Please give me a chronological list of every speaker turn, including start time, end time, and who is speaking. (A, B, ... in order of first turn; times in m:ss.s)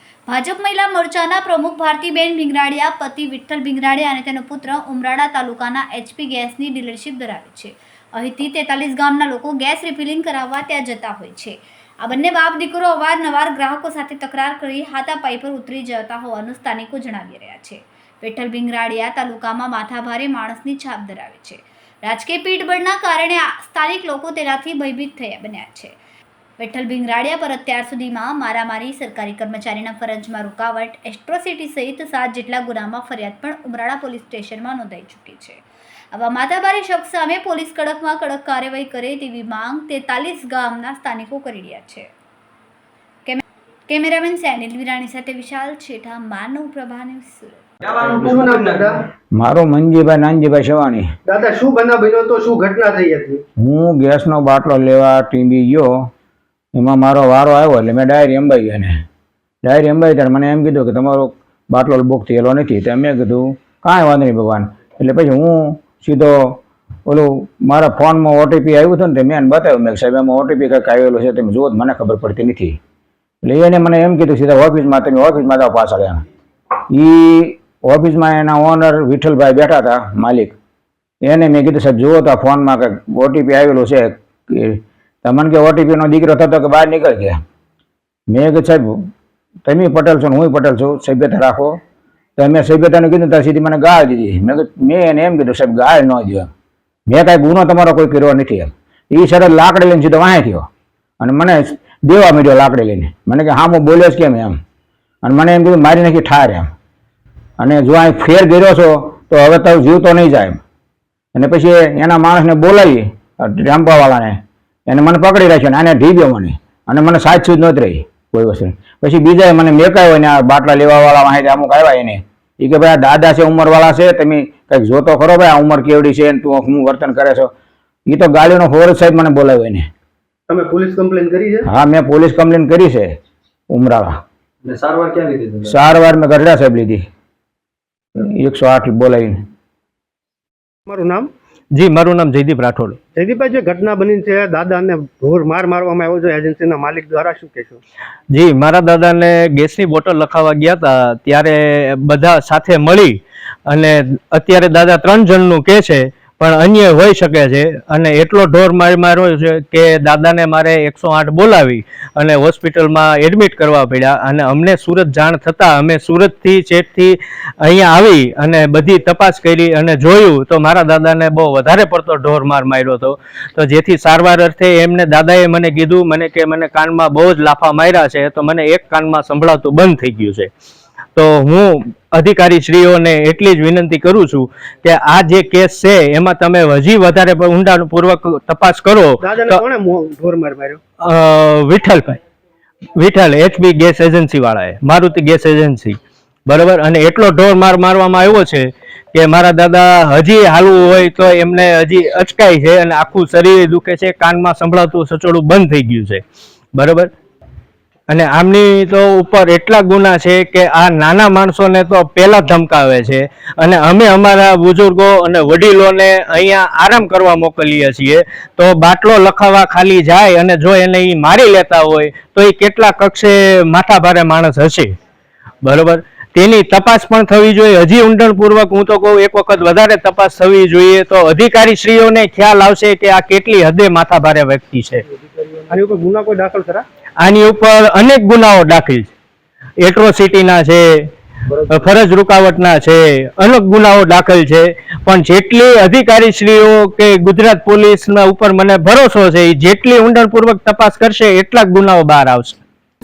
0:00.3-0:25.9 A
0:26.6-0:35.6 A
0:36.1-0:42.1 A
0:43.2-0:47.6 A
0:47.8-0:48.9 B
0:48.0-0:49.0 C
0:49.4-0:51.1 D
0:51.3-0:53.4 C
0:53.6-0:55.9 D
0:56.8-0:59.0 D
0:59.6-1:12.8 D
1:13.4-1:16.2 D
1:16.9-1:20.6 D
1:21.2-1:27.4 D
1:28.3-1:29.0 D
1:29.6-1:31.8 D
1:32.4-1:36.5 D
1:37.1-1:40.7 D
1:41.2-1:44.6 D
1:45.2-1:46.7 D
1:47.6-1:50.6 D
1:51.4-1:54.4 D
1:54.9-2:07.5 D
2:08.1-2:09.9 D
2:10.5-2:11.7 C
2:11.7-2:13.1 D
2:13.7-2:14.2 D
2:14.6-2:15.8 B
2:15.6-2:17.0 D
2:18.2-2:19.4 D
2:20.9-2:21.3 C
2:21.7-2:23.0 E
2:23.2-2:27.8 C
2:28.3-3:00.5 E
3:01.2-3:09.6 E
3:09.2-3:10.8 C
3:11.0-3:12.2 E
3:13.0-3:26.2 E
3:26.8-3:27.1 E
3:28.1-3:45.0 E
3:45.6-3:55.0 E
3:55.6-3:56.8 C
3:57.2-3:59.1 E
3:59.8-4:01.1 E
4:01.7-4:12.6 E